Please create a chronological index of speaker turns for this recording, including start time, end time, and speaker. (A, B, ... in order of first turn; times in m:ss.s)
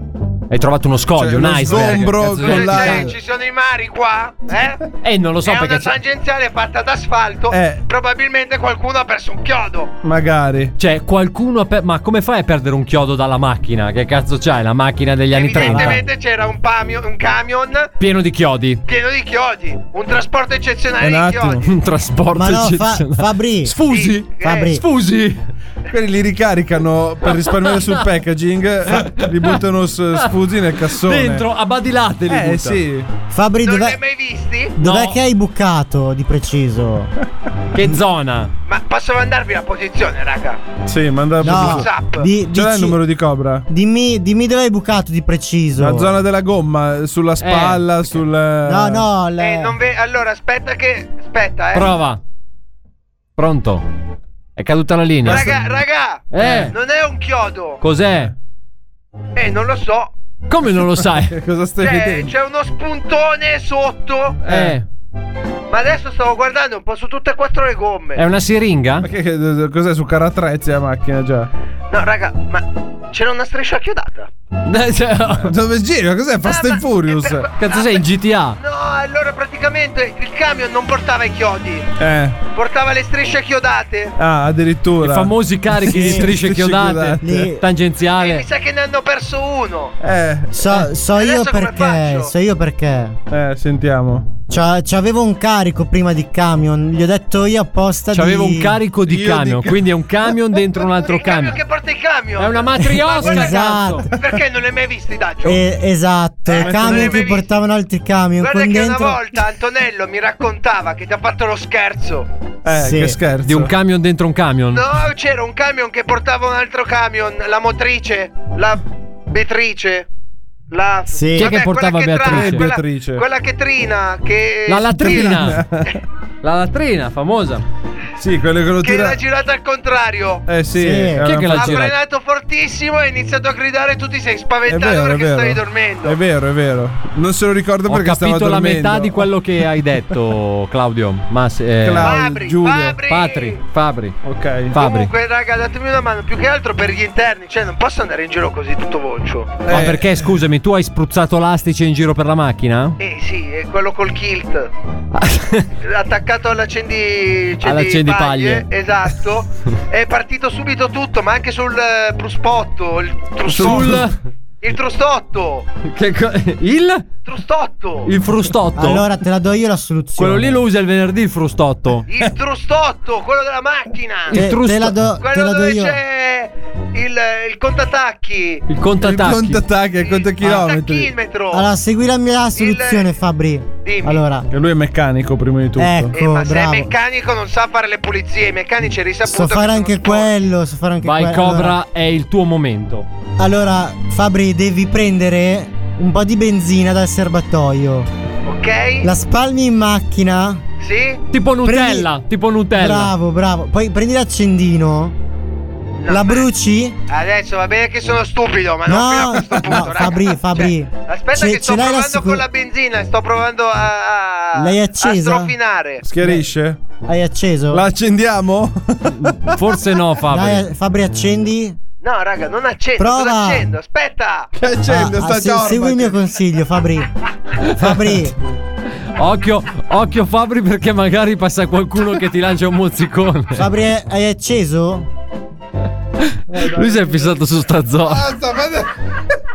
0:00.5-0:03.1 A
0:01.2-0:03.2 B
0:02.4-0:04.8 C
0:05.0-0:06.0 A
0:05.4-0:09.9 C
0:07.5-0:07.8 B
0:10.0-0:10.8 B
0:10.8-0:16.0 A
0:15.3-0:17.9 C
0:15.6-0:15.9 B
0:18.0-0:18.8 A
0:18.9-0:21.6 C
0:21.0-0:21.6 B
0:21.6-0:25.4 A
0:22.3-0:23.8 D
0:23.9-0:24.8 C
0:24.4-0:24.8 D
0:25.9-0:31.4 B
0:28.9-0:29.5 A
0:31.0-0:32.8 A
0:32.3-0:33.1 B
0:33.3-0:34.0 D
0:33.6-0:34.8 C
0:34.8-0:37.1 D
0:34.8-0:35.2 A
0:37.7-0:38.5 A
0:38.7-0:40.6 C
0:40.9-0:42.0 B
0:41.4-0:43.0 D
0:41.4-0:42.3 C
0:42.5-0:43.6 B
0:43.7-0:46.1 D
0:45.8-0:49.1 B
0:47.4-0:48.2 A
0:48.7-0:49.8 D
0:49.4-0:52.0 C
0:51.7-0:52.2 A
0:53.4-0:53.8 A
0:54.6-0:55.5 A
0:55.2-0:57.8 C
0:55.3-0:55.6 B
0:56.3-0:56.8 A
0:56.4-0:56.7 B
0:57.8-0:58.3 A
0:59.4-1:00.1 C
1:00.5-1:01.4 A
1:01.2-1:02.3 B
1:01.8-1:04.4 C
1:04.4-1:04.8 B
1:04.5-1:04.9 A
1:05.7-1:08.2 C
1:08.2-1:09.1 A
1:09.0-1:11.5 B
1:11.9-1:14.3 C
1:14.7-1:15.6 A
1:15.4-1:17.5 B
1:16.4-1:18.1 C
1:17.6-1:18.6 A
1:18.6-1:21.9 C
1:22.0-1:22.4 B
1:22.5-1:24.1 C
1:24.2-1:27.5 B
1:25.0-1:28.4 A
1:25.9-1:26.3 D
1:27.2-1:27.6 D
1:28.2-1:29.9 C
1:30.0-1:30.8 B
1:30.5-1:33.2 D
1:31.1-1:32.3 C
1:33.3-1:34.4 B
1:34.5-1:38.8 D
1:38.1-1:41.6 A
1:39.1-1:39.8 B
1:40.8-1:45.6 C
1:42.4-1:44.1 A
1:43.2-1:44.2 D
1:45.4-1:49.2 D
1:46.5-1:47.5 C
1:46.5-1:47.3 B
1:48.4-1:52.3 C
1:52.6-1:53.7 B
1:52.7-1:53.2 D
1:53.4-1:54.8 A
1:54.7-2:00.1 C
2:00.7-2:06.0 C
2:01.1-2:01.6 D
2:01.4-2:02.7 A
2:02.2-2:03.2 B
2:04.7-2:05.6 A
2:05.0-2:06.0 B
2:06.4-2:07.6 A
2:08.2-2:09.2 B
2:08.8-2:10.4 C
2:10.5-2:11.9 B
2:10.8-2:11.3 D
2:11.2-2:12.0 A
2:11.5-2:16.2 C
2:14.7-2:19.2 B
2:17.9-2:22.2 A
2:21.8-2:23.0 B
2:22.0-2:23.6 C
2:23.1-2:24.2 A
2:24.2-2:24.8 B
2:24.7-2:25.1 A
2:24.8-2:29.6 C
2:29.6-2:30.2 B
2:29.7-2:33.0 A
2:33.0-2:34.7 C
2:35.1-2:35.7 A
2:35.8-2:44.0 C
2:37.6-2:38.7 A
2:43.5-2:44.1 B
2:43.6-2:44.2 A
2:44.6-2:45.7 C
2:45.9-2:47.0 A
2:47.2-2:48.1 C
2:48.0-2:49.0 A
2:48.8-2:50.6 D
2:50.2-2:52.0 A
2:52.1-2:54.4 C
2:54.3-2:55.0 A
2:54.3-2:56.0 D
2:55.2-2:58.6 C
2:58.7-2:59.6 A
2:59.0-3:01.1 B
3:00.0-3:01.7 C
3:01.5-3:04.5 D
3:02.6-3:03.2 C
3:03.8-3:04.2 C
3:04.5-3:06.2 B
3:05.8-3:06.9 D
3:06.1-3:10.3 C
3:09.3-3:11.8 D
3:11.0-3:13.1 A
3:13.4-3:18.1 D
3:18.5-3:19.1 C
3:19.0-3:20.6 D
3:20.8-3:21.2 C
3:21.3-3:23.1 A
3:21.6-3:22.1 D
3:22.8-3:25.2 D
3:26.0-3:26.5 C
3:26.1-3:27.0 D
3:27.1-3:36.0 C
3:28.9-3:32.4 D
3:34.6-3:35.5 D
3:36.0-3:36.8 B
3:37.1-3:37.8 D
3:37.7-3:39.4 B
3:39.1-3:40.7 A
3:40.3-3:41.8 D
3:42.0-3:44.5 C
3:43.0-3:43.7 D
3:44.6-3:46.2 B
3:44.9-3:47.1 D
3:47.7-3:48.4 D
3:49.2-3:53.6 A
3:53.6-3:55.1 D
3:56.3-3:58.2 A
3:56.5-3:57.4 B
3:58.0-3:58.9 B